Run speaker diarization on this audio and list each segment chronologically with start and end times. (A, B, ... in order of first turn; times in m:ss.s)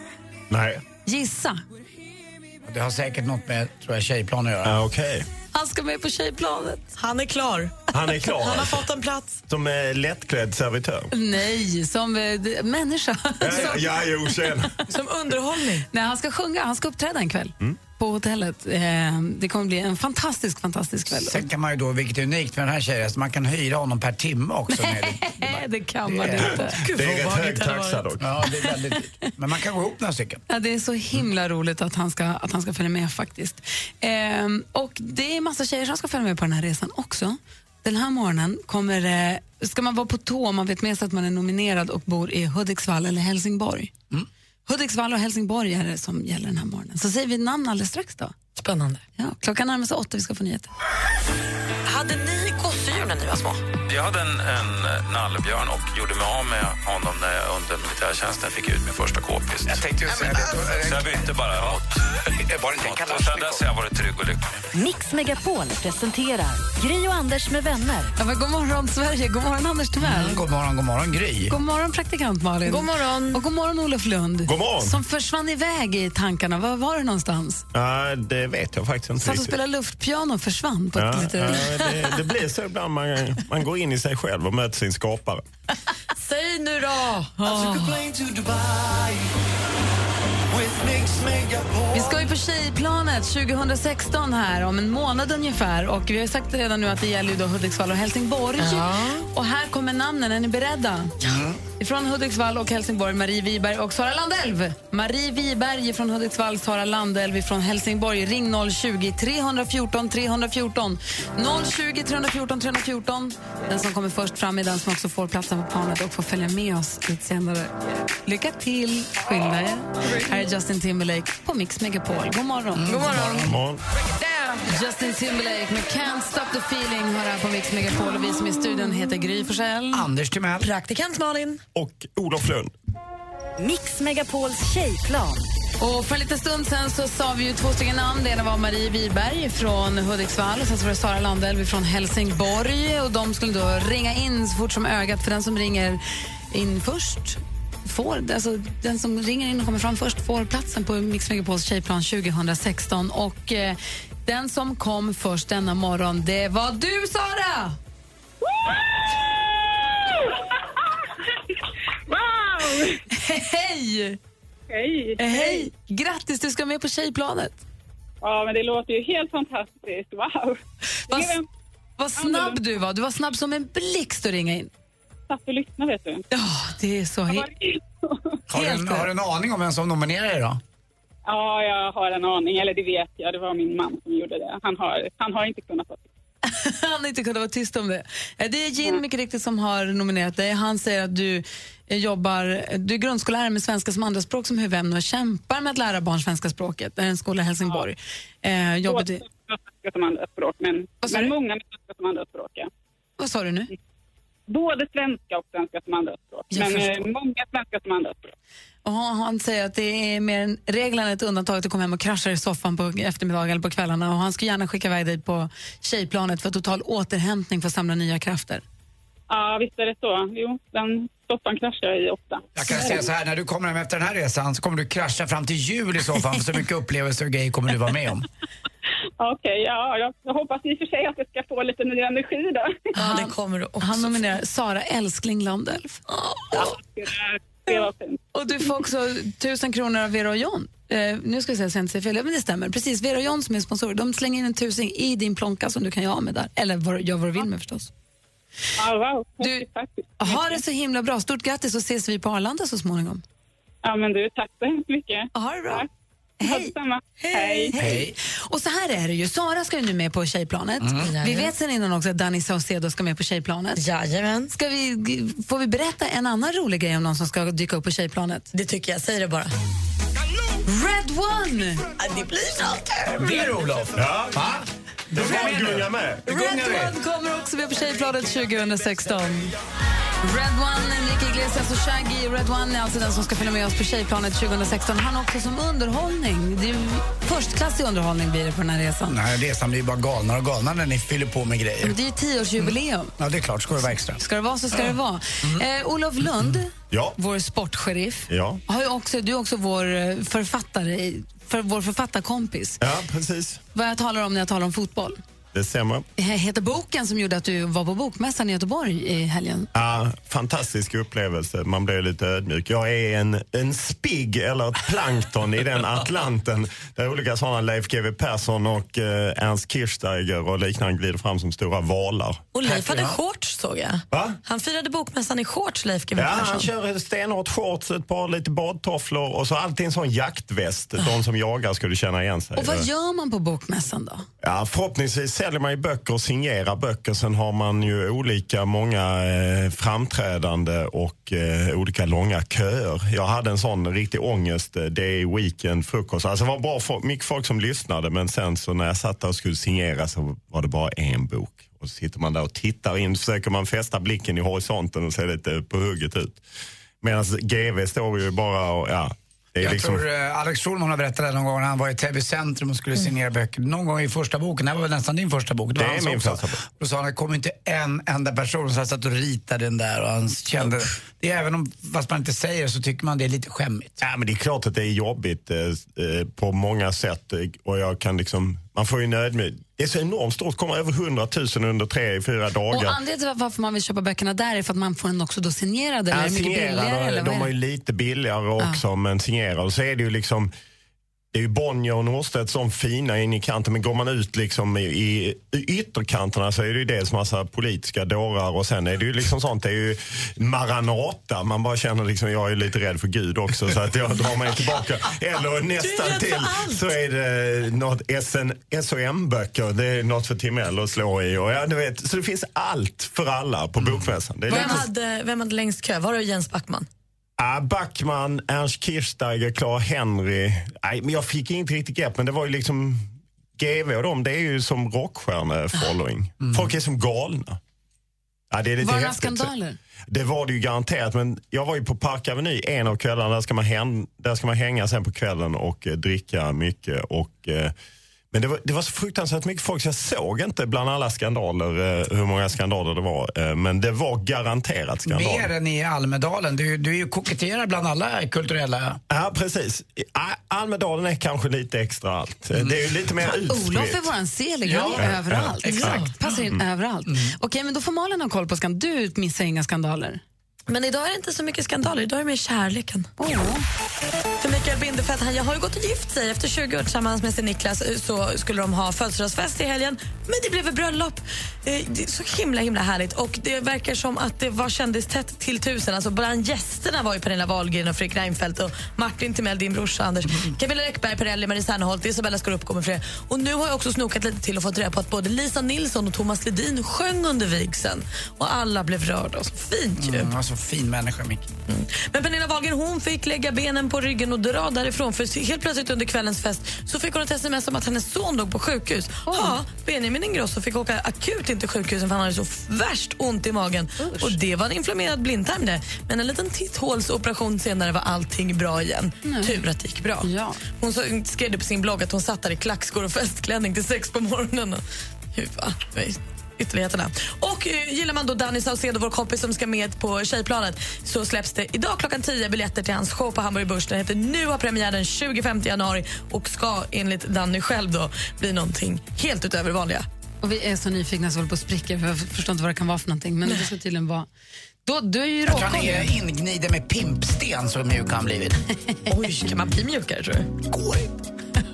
0:00.5-0:00.8 A
0:01.0-0:01.6 B
0:02.6-0:04.8 C
0:04.6-0:05.2 A
0:05.5-0:06.9 B
0:07.0-0:09.4 D
0:07.9-0:08.8 A
0:09.5-0:11.1 A
0:11.1-0:13.9 B
0:13.4-0:14.7 A
0:14.9-0:15.9 D
0:15.9-0:21.4 B
0:21.1-0:26.6 C
0:24.7-0:26.8 B
0:26.4-0:28.1 D
0:26.8-0:28.2 A
0:28.2-0:30.4 C
0:30.5-0:43.9 B
0:44.7-0:48.3 B
0:48.6-0:49.0 D
0:49.2-0:50.7 B
0:51.8-0:53.6 D
0:53.9-0:59.8 E
0:59.6-1:01.3 C
1:00.4-1:02.0 E
1:02.4-1:03.6 C
1:02.8-1:04.4 E
1:04.7-1:08.1 F
1:08.2-1:10.4 B
1:10.0-1:11.6 C
1:11.5-1:17.6 B
1:12.6-1:13.4 D
1:14.4-1:15.0 A
1:17.7-1:19.6 A
1:19.2-1:21.7 B
1:21.0-1:25.4 A
1:26.2-1:27.7 D
1:27.4-1:27.9 B
1:31.9-1:41.2 B
1:38.6-1:39.2 D
1:41.2-1:41.6 C
1:41.8-1:57.7 B
1:58.2-2:02.9 B
2:02.7-2:03.6 C
2:02.9-2:03.5 D
2:03.4-2:03.8 A
2:04.6-2:10.0 B
2:09.9-2:10.7 C
2:10.6-2:11.6 D
2:11.7-2:12.7 A
2:13.6-2:15.4 F
2:15.8-2:26.0 B
2:26.5-2:37.8 B
2:38.4-2:40.4 G
2:42.1-2:43.0 G
2:43.1-2:44.2 B
2:44.7-2:45.7 G
2:45.2-2:47.6 B
2:48.2-2:51.4 G
2:51.1-2:51.3 B
2:52.0-2:54.7 B
2:52.2-2:52.6 G
2:55.3-2:56.2 G
2:56.3-2:57.5 B
2:57.3-2:58.4 G
2:58.5-3:00.6 C
2:58.5-2:59.1 B
3:01.2-3:06.1 G
3:06.4-3:19.2 B
3:18.8-3:22.7 G
3:21.0-3:21.3 B
3:23.2-3:23.7 B
3:24.5-3:28.3 G
3:26.5-3:26.9 B
3:28.8-3:38.6 B
3:39.3-3:43.0 G
3:42.5-3:48.2 C
3:49.2-3:52.9 G
3:53.0-3:56.0 B
3:53.0-3:54.3 D
3:56.1-3:56.7 D
3:56.5-3:58.2 G
3:58.3-4:07.9 B
4:08.8-4:10.6 G
4:10.2-4:13.2 B
4:13.8-4:15.9 G
4:15.3-4:15.8 B
4:16.4-4:16.7 B
4:16.4-4:17.7 G
4:17.2-4:17.7 D
4:17.6-4:23.8 B
4:17.7-4:18.1 C
4:20.8-4:21.1 C
4:21.0-4:21.5 D
4:23.7-4:24.5 D
4:24.5-4:28.5 B
4:28.5-4:29.5 D
4:30.6-4:31.8 B
4:32.0-4:33.3 D
4:33.0-4:36.9 C
4:34.0-4:34.4 A
4:35.1-4:36.3 A
4:36.2-4:39.5 B
4:40.2-4:49.2 B
4:49.1-4:52.0 C
4:51.8-4:53.1 B
4:52.6-4:54.2 C
4:54.2-5:02.8 B
4:56.9-4:57.2 A
4:58.3-4:58.6 A
5:02.8-5:03.6 A
5:03.7-5:05.2 B
5:05.5-5:06.0 A
5:06.2-5:09.7 B
5:09.7-5:22.5 A
5:22.5-5:26.7 D
5:22.6-5:23.2 C
5:24.1-5:24.4 A
5:26.1-5:32.9 A
5:32.6-5:34.2 B
5:34.4-5:56.4 A
5:57.0-6:00.0 A
5:59.6-6:14.0 C
6:05.8-6:06.6 A
6:14.0-6:23.0 A
6:22.7-6:27.5 B
6:26.1-6:30.5 A
6:31.3-6:54.9 A
6:45.8-6:46.9 D
6:54.5-6:56.9 D
6:54.5-6:54.8 B
6:57.4-7:07.6 A
7:06.4-7:06.7 C
7:08.5-7:09.5 A
7:08.8-7:09.8 B
7:10.1-7:17.7 A
7:18.3-7:25.5 A
7:25.0-7:29.0 C
7:29.1-7:34.1 A
7:32.6-7:32.9 C
7:33.4-7:40.2 B
7:34.6-7:35.9 C
7:34.9-7:36.6 A
7:35.6-7:36.1 D
7:37.1-7:37.3 C
7:40.7-7:43.1 D
7:43.2-7:43.6 B
7:44.4-8:10.3 D
8:10.0-8:11.5 C
8:11.7-8:34.8 D
8:19.3-8:19.6 B
8:24.0-8:24.4 B
8:29.2-8:29.6 B
8:30.2-8:30.6 B
8:35.3-8:50.0 D
8:50.4-8:54.3 B
8:54.8-8:56.1 B
8:55.5-8:58.6 C
8:59.1-9:00.5 D
9:00.7-9:01.1 C